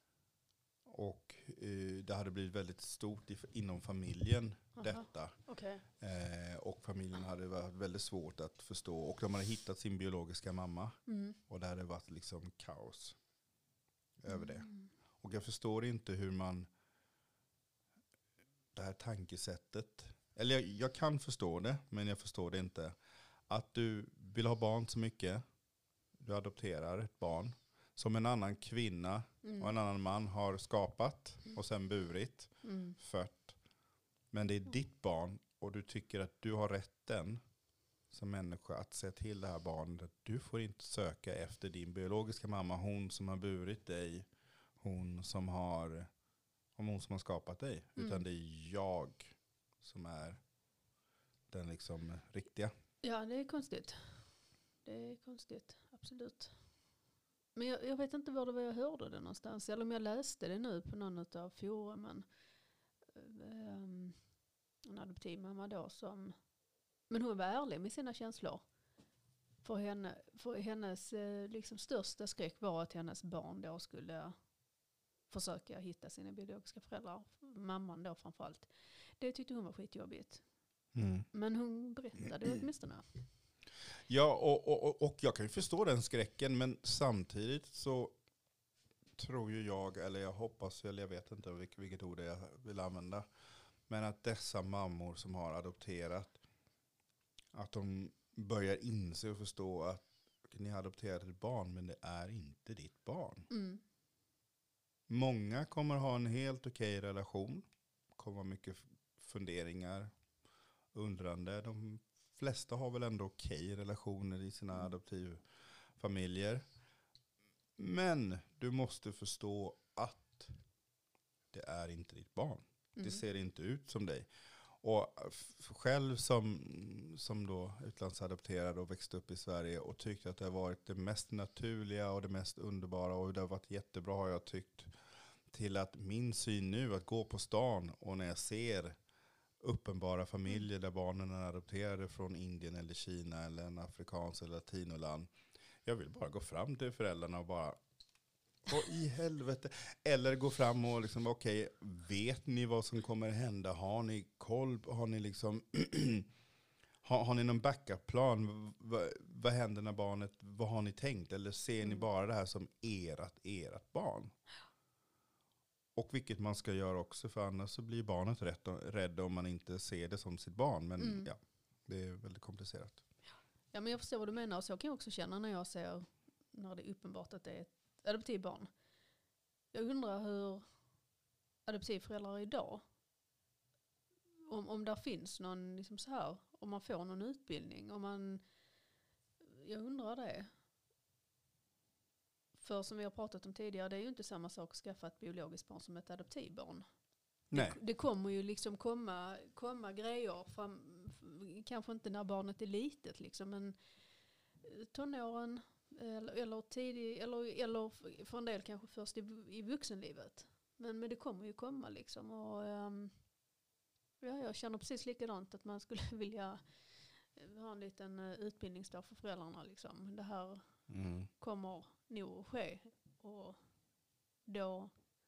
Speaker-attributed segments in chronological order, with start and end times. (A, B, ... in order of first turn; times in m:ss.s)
0:00.8-0:13.2 A
0:04.8-0:05.8 B
0:11.1-0:11.4 B
0:14.2-0:14.7 A
0:14.3-0:14.9 B
0:15.2-0:16.7 A
0:18.7-0:23.0 A
0:23.5-0:25.4 A
0:26.2-0:33.6 A
0:29.4-0:29.7 B
0:32.6-0:33.0 B
0:34.3-0:37.4 A
0:38.1-0:44.2 A
0:44.8-0:46.1 A
0:46.8-0:50.4 A
0:48.0-0:48.2 B
0:51.5-0:52.7 A
0:53.0-0:54.0 B
0:54.8-0:56.5 B
0:57.5-1:02.2 B
1:03.1-1:04.3 B
1:04.8-1:06.4 B
1:07.1-1:08.6 B
1:09.6-1:14.5 B
1:15.3-1:20.4 B
1:20.9-1:21.3 A
1:21.3-1:23.0 B
1:24.1-1:28.2 A
1:29.2-1:33.3 A
1:33.9-1:36.4 A
1:37.5-1:43.5 A
1:43.5-1:43.8 B
1:45.1-1:50.1 A
1:50.9-1:56.6 A
1:57.8-2:00.6 A
2:01.5-2:14.9 A
2:03.0-2:03.2 B
2:15.5-2:19.0 A
2:19.6-2:25.3 A
2:25.8-2:27.8 A
2:28.6-2:36.3 A
2:37.0-2:44.3 A
2:45.9-2:53.0 A
2:51.0-2:51.3 B
2:53.7-2:58.7 B
2:59.7-3:00.7 B
3:01.6-3:02.8 B
3:04.5-3:08.4 B
3:09.4-3:10.5 B
3:12.6-3:16.8 B
3:17.5-3:23.8 B
3:17.5-3:17.8 A
3:24.6-3:33.2 B
3:34.2-3:40.8 B
3:40.9-3:41.3 A
3:41.4-3:43.6 B
3:44.4-3:45.0 B